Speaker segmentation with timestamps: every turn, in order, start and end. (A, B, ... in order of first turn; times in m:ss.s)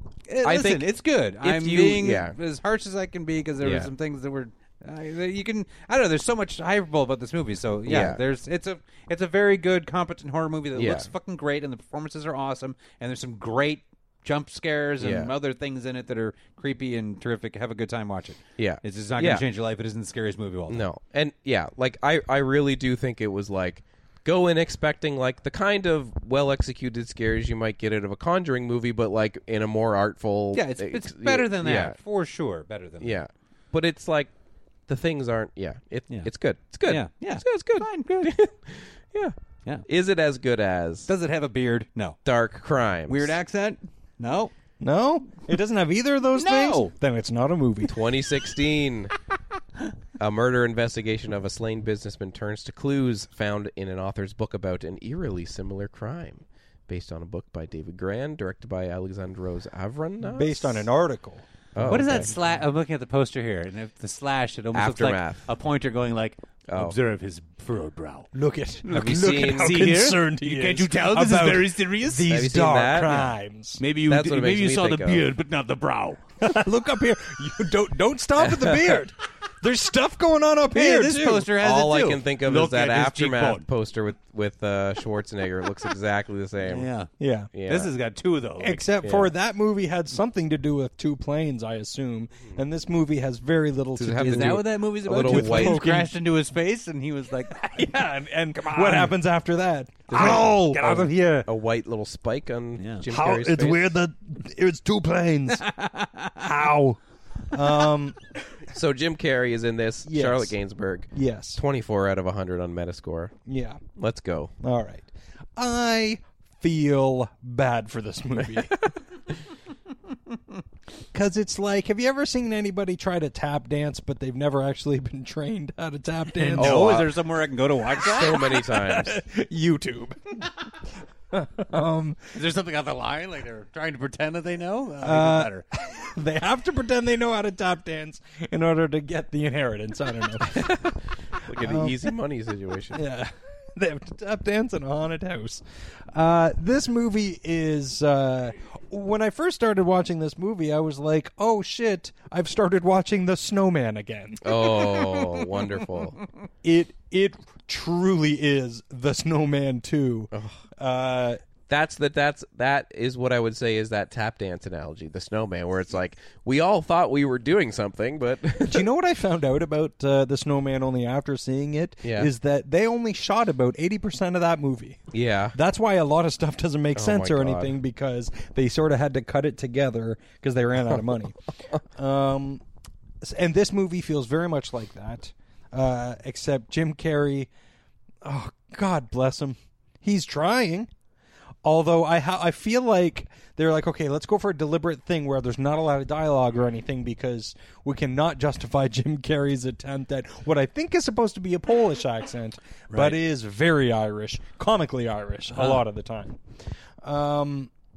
0:00.3-0:20.8 A
0:00.4-0:00.9 B
0:01.4-0:02.4 B
0:03.6-0:03.9 B
0:07.8-0:08.2 B
0:10.7-0:11.1 B
0:15.0-0:15.3 B
0:18.6-0:19.4 B
0:20.7-0:32.0 B
0:30.5-0:33.2 A
0:33.0-0:34.3 B
0:34.9-0:39.3 B
0:36.8-0:38.3 A
0:39.9-0:41.1 B
0:41.1-0:42.2 A
0:42.2-0:43.4 B
0:43.1-0:44.5 A
0:44.8-0:48.0 C
0:46.4-0:46.9 A
0:47.9-0:49.1 B
0:50.2-1:00.8 B
1:00.2-1:02.4 C
1:01.7-1:02.3 B
1:01.8-1:08.3 A
1:04.7-1:05.5 B
1:06.7-1:07.0 B
1:08.3-1:13.8 C
1:08.8-1:12.3 A
1:08.9-1:09.8 B
1:12.3-1:13.3 B
1:13.8-1:16.2 A
1:14.1-1:15.3 B
1:16.4-1:21.5 C
1:18.5-1:18.8 B
1:20.7-1:23.6 A
1:21.6-1:26.9 B
1:26.6-1:27.1 A
1:27.2-1:27.5 C
1:27.5-1:27.9 B
1:27.6-1:28.8 A
1:28.6-1:36.1 C
1:29.0-1:29.3 B
1:34.0-1:35.8 B
1:34.2-1:39.1 A
1:37.5-1:41.5 C
1:40.1-1:43.9 B
1:40.1-1:40.9 A
1:42.8-1:43.0 A
1:43.1-1:45.6 C
1:45.6-1:46.4 A
1:46.4-1:47.0 C
1:47.5-1:48.2 C
1:48.7-1:53.3 B
1:50.0-1:50.5 C
1:51.1-1:51.6 C
1:53.5-1:53.8 C
1:54.0-1:54.5 B
1:54.6-1:58.8 C
2:01.1-2:07.0 C
2:06.4-2:08.6 A
2:06.6-2:07.1 B
2:08.0-2:09.2 B
2:08.2-2:10.5 C
2:11.3-2:12.4 C
2:12.3-2:15.6 A
2:15.0-2:20.8 C
2:20.5-2:23.0 B
2:21.5-2:22.1 C
2:22.9-2:35.0 C
2:34.4-2:36.2 B
2:36.6-2:41.4 C
2:40.3-2:40.6 B
2:41.7-2:48.8 B
2:48.6-2:55.0 C
2:52.0-2:52.3 B
2:55.1-2:55.6 B
2:55.5-3:02.6 C
2:56.9-2:57.7 B
3:03.2-3:07.5 C
3:08.2-3:10.9 C
3:11.6-3:26.4 C
3:22.9-3:23.2 A
3:25.5-3:25.8 A
3:27.0-3:27.7 C